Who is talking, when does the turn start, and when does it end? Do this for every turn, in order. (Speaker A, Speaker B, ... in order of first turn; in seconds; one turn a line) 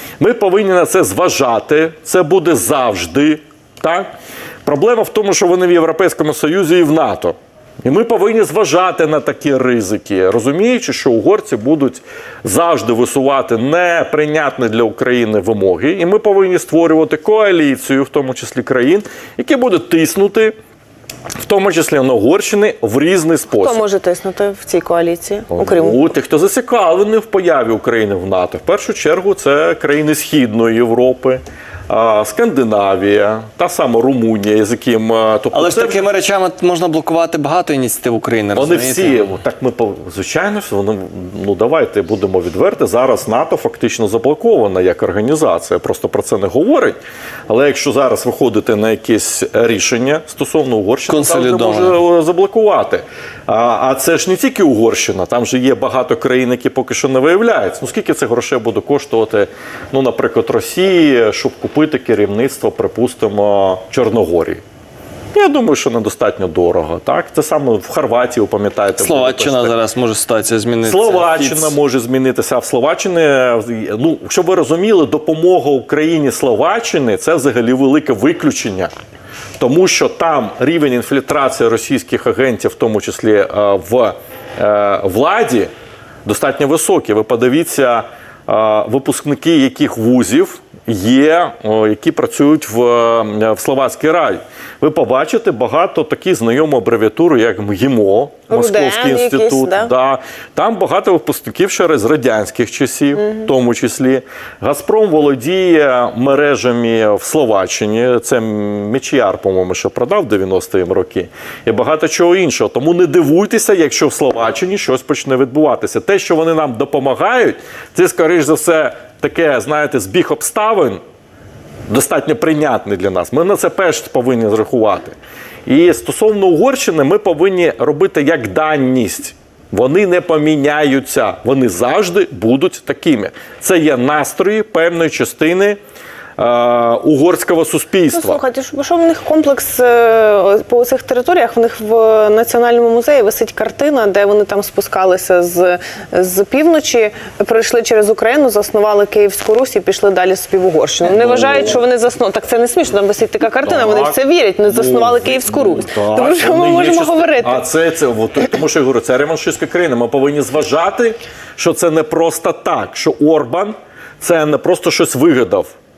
Speaker A: 0.2-4.1
Speaker A: 4.6-20.5
Speaker A: 21.4-23.8
Speaker B: 23.5-26.0
Speaker A: 25.5-36.0
Speaker C: 35.5-39.3
Speaker A: 38.5-46.9
Speaker A: 47.5-64.6
Speaker C: 51.1-52.0
Speaker A: 65.3-69.7
Speaker C: 69.0-71.8
Speaker A: 70.8-78.9
Speaker A: 79.6-85.7
Speaker A: 86.2-121.0
Speaker B: 98.5-99.9
Speaker B: 103.2-103.5
Speaker A: 121.9-125.1
Speaker A: 125.7-135.8
Speaker A: 136.4-138.4
Speaker B: 138.1-157.6
Speaker A: 151.1-151.8
Speaker A: 153.6-165.7